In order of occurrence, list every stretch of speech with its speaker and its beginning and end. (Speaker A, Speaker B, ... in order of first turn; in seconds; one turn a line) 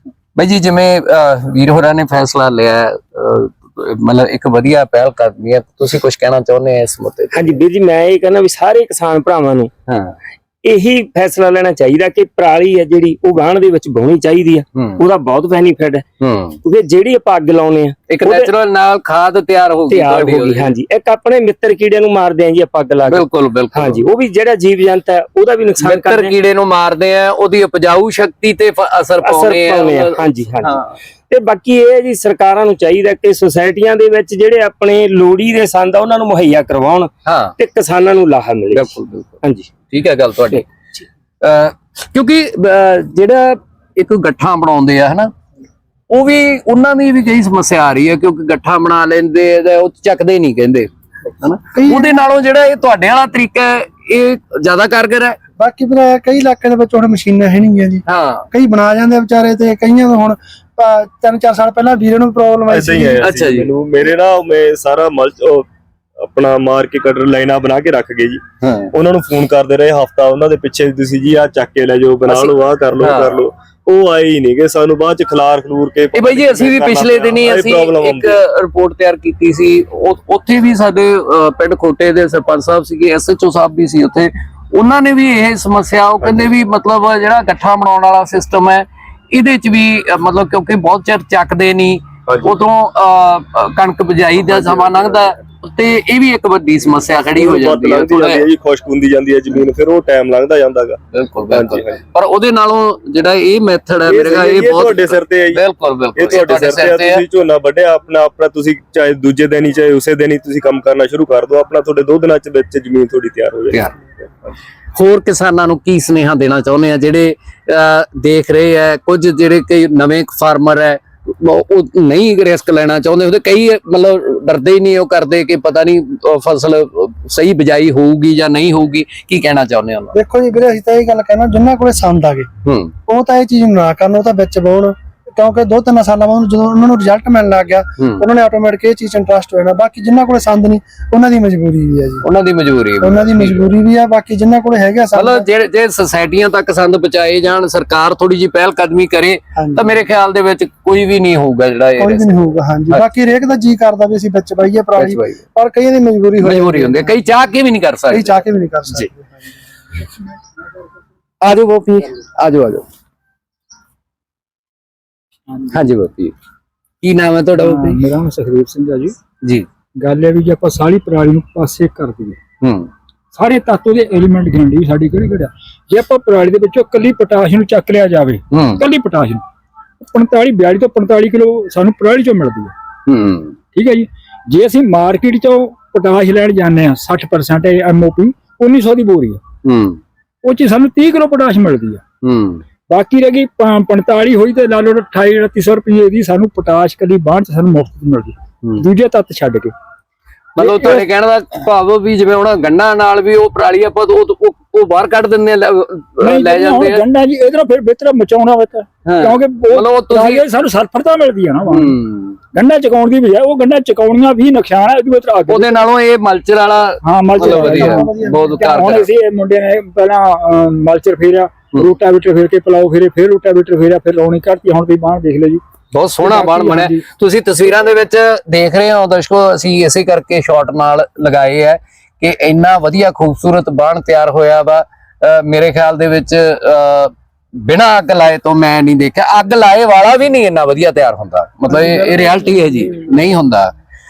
Speaker A: 0.4-7.6
Speaker B: 7.3-9.7
Speaker A: 9.9-10.2
Speaker B: 10.7-16.1
Speaker A: 14.8-15.0
Speaker A: 16.2-16.6
Speaker B: 16.6-18.5
Speaker A: 18.1-20.7
Speaker B: 19.9-26.4
Speaker A: 23.1-24.0
Speaker A: 25.8-30.9
Speaker B: 29.2-39.7
Speaker A: 37.2-37.5
Speaker A: 38.7-40.7
Speaker A: 41.4-45.3
Speaker A: 46.1-55.4
Speaker C: 51.8-52.2
Speaker C: 55.6-63.3
Speaker A: 58.1-58.5
Speaker D: 62.7-65.7
Speaker A: 63.2-63.7
Speaker D: 66.2-68.4
Speaker A: 68.6-68.9
Speaker D: 68.9-78.4
Speaker A: 72.3-73.4
Speaker A: 76.1-98.5
Speaker D: 86.2-86.5
Speaker D: 92.3-92.6
Speaker D: 97.3-101.0
Speaker A: 101.1-107.2
Speaker D: 101.5-102.0
Speaker D: 104.0-105.6
Speaker D: 106.2-114.5
Speaker A: 115.0-130.2
Speaker C: 130.1-132.5
Speaker A: 132.7-132.9
Speaker C: 133.1-142.2
Speaker A: 138.0-138.2
Speaker A: 142.2-143.7
Speaker C: 143.0-145.5
Speaker A: 145.1-153.0
Speaker C: 149.6-149.9
Speaker C: 152.0-157.2
Speaker A: 155.0-155.4
Speaker A: 156.4-159.1
Speaker C: 158.1-159.5
Speaker A: 161.4-162.9
Speaker E: 165.5-165.8
Speaker A: 165.7-166.3
Speaker A: 167.0-168.0
Speaker E: 167.6-169.2
Speaker E: 170.0-172.4
Speaker A: 172.6-172.9
Speaker E: 173.3-179.4
Speaker A: 178.5-178.8
Speaker E: 180.0-182.7
Speaker A: 183.1-183.6
Speaker E: 183.7-189.4
Speaker A: 189.6-190.0
Speaker E: 190.4-192.0
Speaker A: 192.2-192.6
Speaker E: 192.9-199.7
Speaker A: 200.6-207.0
Speaker E: 200.6-201.1
Speaker E: 206.2-212.0
Speaker A: 209.1-210.4
Speaker A: 211.7-212.4
Speaker E: 212.5-215.8
Speaker A: 215.5-219.1
Speaker E: 217.0-225.6
Speaker C: 217.4-218.8
Speaker A: 225.9-237.1
Speaker E: 226.2-227.0
Speaker A: 237.6-243.7
Speaker C: 241.7-243.1